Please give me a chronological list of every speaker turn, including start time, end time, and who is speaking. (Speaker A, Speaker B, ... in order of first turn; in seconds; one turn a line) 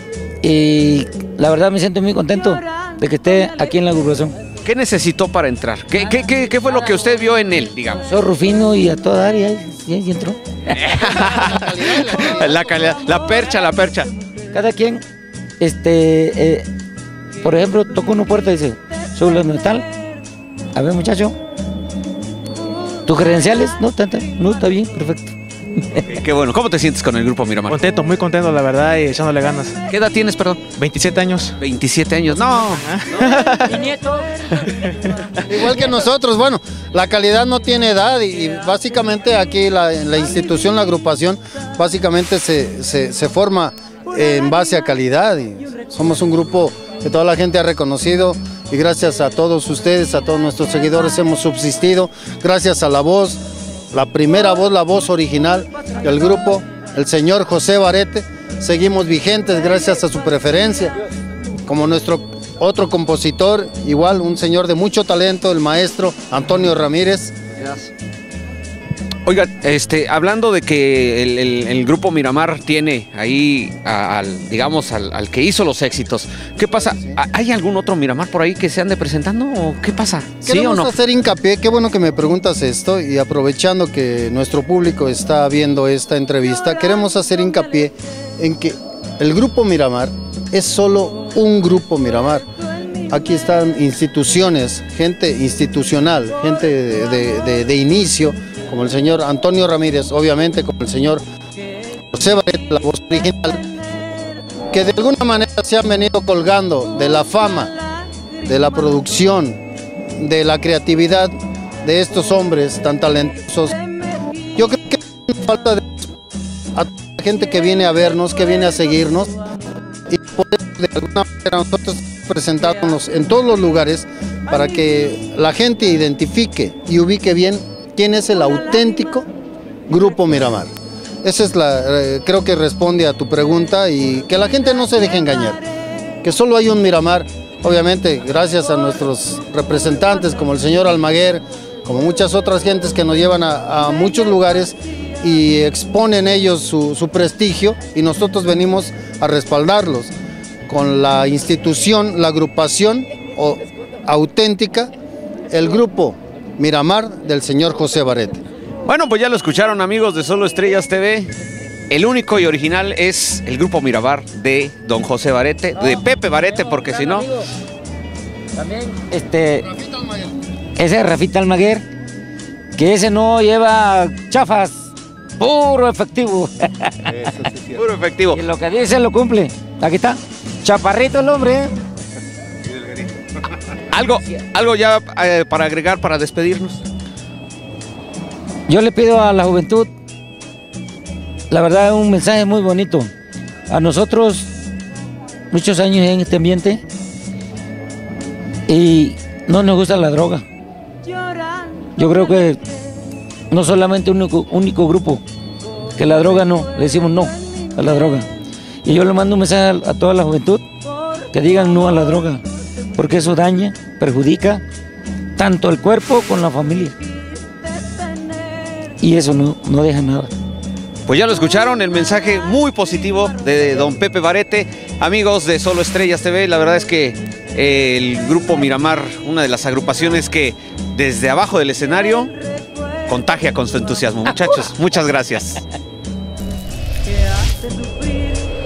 Speaker A: 0.4-4.4
Speaker B: 4.6-8.0
Speaker A: 7.9-10.7
Speaker B: 10.7-14.1
Speaker C: 11.5-12.3
Speaker A: 14.5-15.0
Speaker A: 15.6-16.6
Speaker A: 17.4-19.9
Speaker A: 20.7-21.4
Speaker A: 23.1-25.3
Speaker B: 26.0-27.8
Speaker D: 27.7-29.8
Speaker B: 29.9-30.6
Speaker D: 30.7-31.6
Speaker B: 31.6-33.2
Speaker D: 32.7-33.7
Speaker C: 35.5-53.4
Speaker C: 53.9-60.9
Speaker C: 61.6-67.3
Speaker B: 69.2-80.9
Speaker C: 80.4-92.5
Speaker C: 93.1-101.2
Speaker C: 102.1-103.6
Speaker C: 104.7-107.7
Speaker C: 108.4-109.6
Speaker C: 110.2-113.8
Speaker C: 114.5-116.1
Speaker C: 116.7-119.3
Speaker C: 120.1-129.3
Speaker C: 129.9-130.7
Speaker C: 131.2-135.6
Speaker C: 136.2-150.1
Speaker C: 150.7-154.9
Speaker C: 155.5-158.4
Speaker B: 158.8-161.3
Speaker B: 161.9-167.3
Speaker A: 165.8-167.5
Speaker A: 168.5-169.7
Speaker C: 169.8-170.1
Speaker A: 170.8-171.8
Speaker A: 172.7-177.5
Speaker B: 177.7-178.4
Speaker A: 178.3-181.7
Speaker B: 183.9-186.8
Speaker A: 188.7-189.9
Speaker A: 191.5-193.1
Speaker A: 193.7-194.5
Speaker A: 195.5-196.8
Speaker A: 198.7-200.4
Speaker A: 202.0-202.6
Speaker A: 203.5-205.2
Speaker A: 205.9-208.3
Speaker A: 208.8-210.6
Speaker A: 211.3-212.4
Speaker A: 212.9-214.6
Speaker A: 215.3-216.9
Speaker A: 219.0-220.3
Speaker B: 221.1-232.3
Speaker B: 233.1-235.6